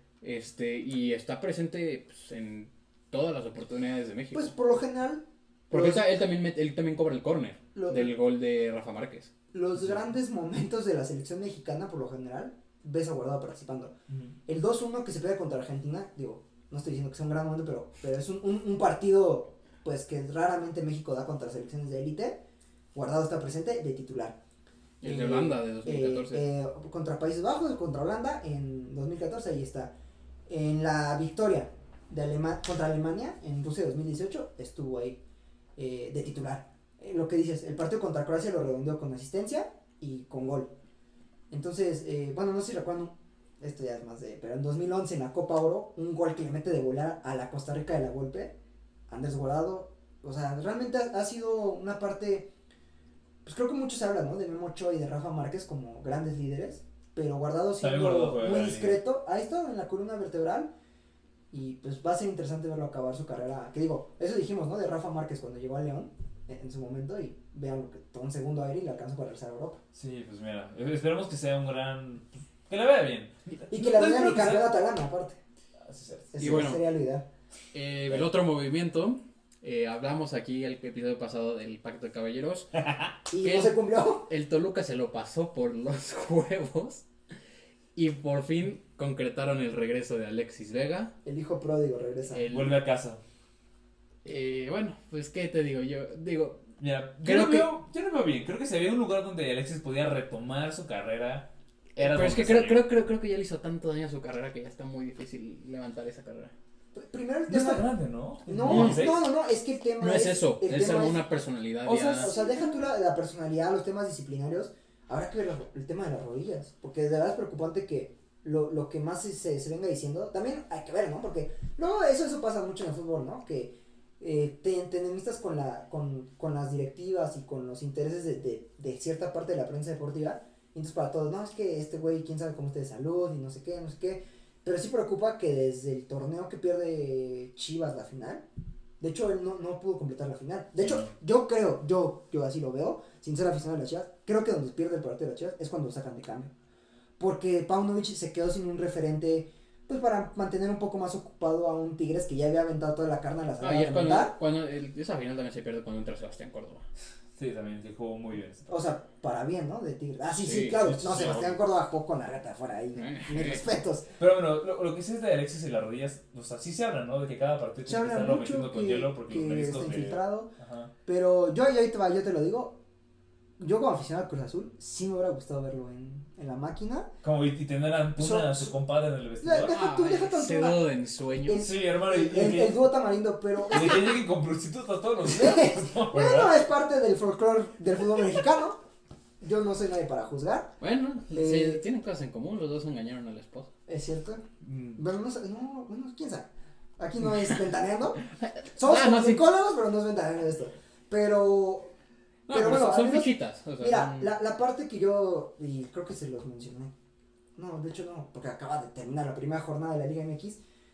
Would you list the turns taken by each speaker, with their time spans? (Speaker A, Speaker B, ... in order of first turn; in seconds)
Speaker A: 0.2-4.5, 5.7-9.3, 25.0-26.4, 76.4-76.8, 77.7-82.7, 83.3-87.0, 87.9-91.1, 92.3-92.8, 94.2-96.6, 97.2-97.7, 102.0-106.5, 108.6-109.1, 110.0-112.3, 153.6-156.8, 160.3-160.8, 162.9-163.6, 179.7-181.6, 190.8-193.7, 198.2-199.4, 202.5-204.3
Speaker B: 4.3-6.1, 7.7-8.1, 9.5-13.9, 14.5-22.4, 22.9-24.4, 25.0-29.9, 30.5-35.2, 35.8-40.7, 41.5-48.5, 49.1-52.5, 53.4-60.7, 61.5-69.8, 73.7-75.4, 76.3-77.3, 83.3-84.3, 91.2-92.5, 106.9-107.9, 108.5-111.2, 111.9-138.4, 139.0-146.5, 147.2-154.3, 158.7-164.1, 167.8-170.5, 171.1-172.8, 173.6-177.1, 178.2-178.7, 179.4-180.8, 181.4-184.2, 185.2-188.8, 189.4-190.7, 191.3-191.8, 193.9-194.4, 194.9-198.2, 198.8-201.9, 202.5-206.9, 207.6-210.6
Speaker C: 14.1-14.3, 57.8-59.0, 69.9-74.7, 75.9-76.6, 82.8-83.1, 92.5-93.2, 96.8-102.9, 107.5-109.2, 140.8-141.1, 157.4-158.8, 160.8-161.6, 164.2-170.9, 177.2-179.7, 181.6-182.8, 183.7-186.5, 194.6-195.0